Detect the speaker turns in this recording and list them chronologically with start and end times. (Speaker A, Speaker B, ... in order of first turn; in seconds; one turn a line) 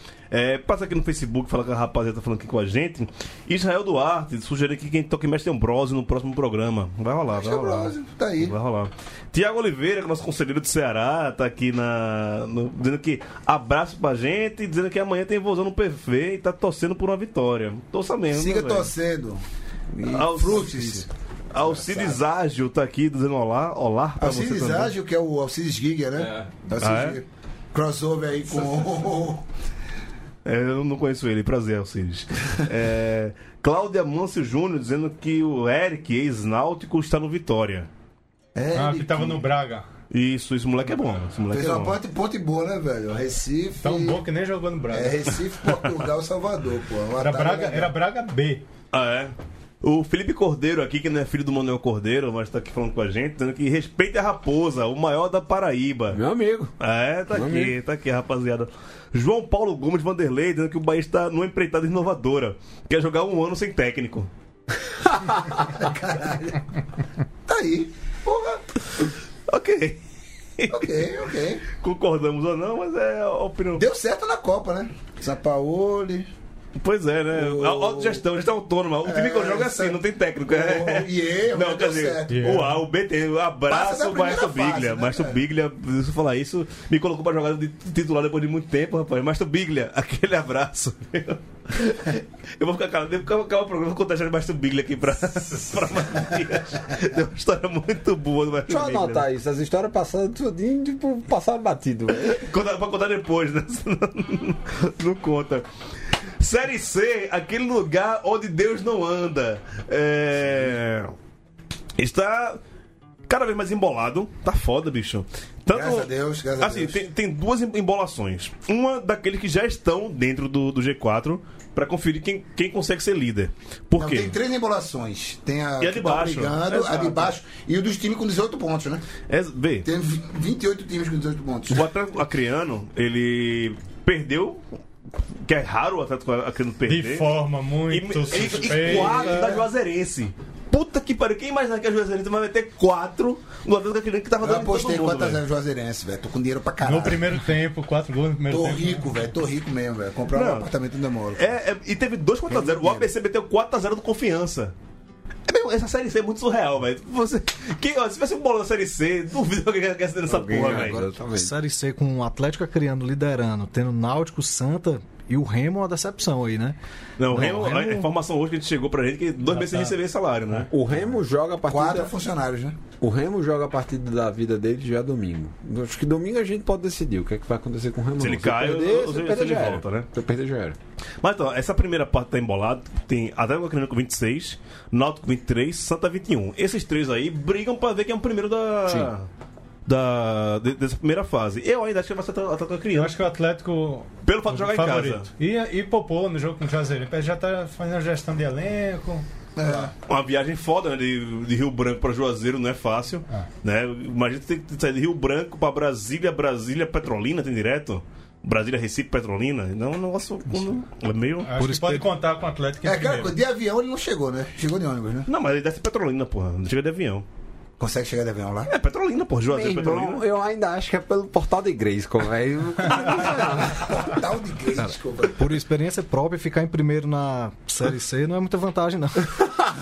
Speaker A: 0.3-18.9
Speaker B: 7.3-8.6
Speaker B: 18.3-19.4
Speaker B: 20.0-21.1
Speaker A: 20.0-24.9
Speaker B: 21.6-22.2
Speaker B: 24.2-29.4
Speaker A: 26.8-27.2
Speaker A: 30.4-37.9
Speaker B: 38.6-39.5
Speaker C: 38.7-39.9
Speaker A: 40.1-42.0
Speaker B: 41.5-44.2
Speaker C: 43.8-45.2
Speaker B: 44.9-47.9
Speaker C: 47.2-48.6
Speaker A: 48.9-56.2
Speaker D: 56.1-56.7
Speaker A: 56.8-64.3
Speaker D: 57.3-57.8
Speaker B: 65.7-66.6
Speaker B: 67.5-68.7
Speaker A: 69.5-70.0
Speaker A: 70.6-71.1
Speaker B: 70.7-71.6
Speaker A: 71.7-73.9
Speaker B: 73.8-76.3
Speaker A: 76.8-99.3
Speaker B: 77.3-78.2
Speaker B: 79.0-82.7
Speaker C: 82.3-82.8
Speaker B: 83.7-85.4
Speaker D: 98.7-102.5
Speaker A: 102.2-105.7
Speaker A: 106.4-111.2
Speaker A: 112.0-112.6
Speaker A: 113.3-124.4
Speaker B: 115.7-117.0
Speaker B: 124.0-129.1
Speaker A: 125.8-127.3
Speaker A: 129.3-129.9
Speaker B: 129.8-131.9
Speaker A: 131.7-134.6
Speaker A: 135.5-137.4
Speaker C: 136.9-139.6
Speaker A: 137.9-145.4
Speaker B: 138.3-139.6
Speaker D: 138.9-139.4
Speaker B: 144.4-147.4
Speaker C: 146.8-149.1
Speaker B: 148.5-151.5
Speaker A: 150.3-150.7
Speaker A: 151.3-154.7
Speaker B: 152.5-153.1
Speaker A: 155.5-161.0
Speaker D: 160.3-161.5
Speaker E: 160.5-166.8
Speaker A: 167.2-170.7
Speaker E: 167.3-168.1
Speaker C: 169.5-169.9
Speaker D: 170.7-172.2
Speaker B: 171.7-172.8
Speaker D: 173.0-180.8
Speaker A: 178.2-180.1
Speaker A: 181.2-189.3
Speaker A: 189.9-193.2
Speaker C: 192.9-199.2
Speaker A: 194.2-195.3
Speaker B: 199.6-199.9
Speaker A: 200.1-211.6
Speaker C: 211.4-213.4
Speaker E: 211.6-212.1
Speaker B: 212.8-215.3
Speaker A: 215.3-217.2
Speaker B: 217.8-218.7
Speaker A: 218.7-220.2
Speaker D: 219.5-224.0
Speaker B: 222.9-225.5
Speaker E: 225.4-229.3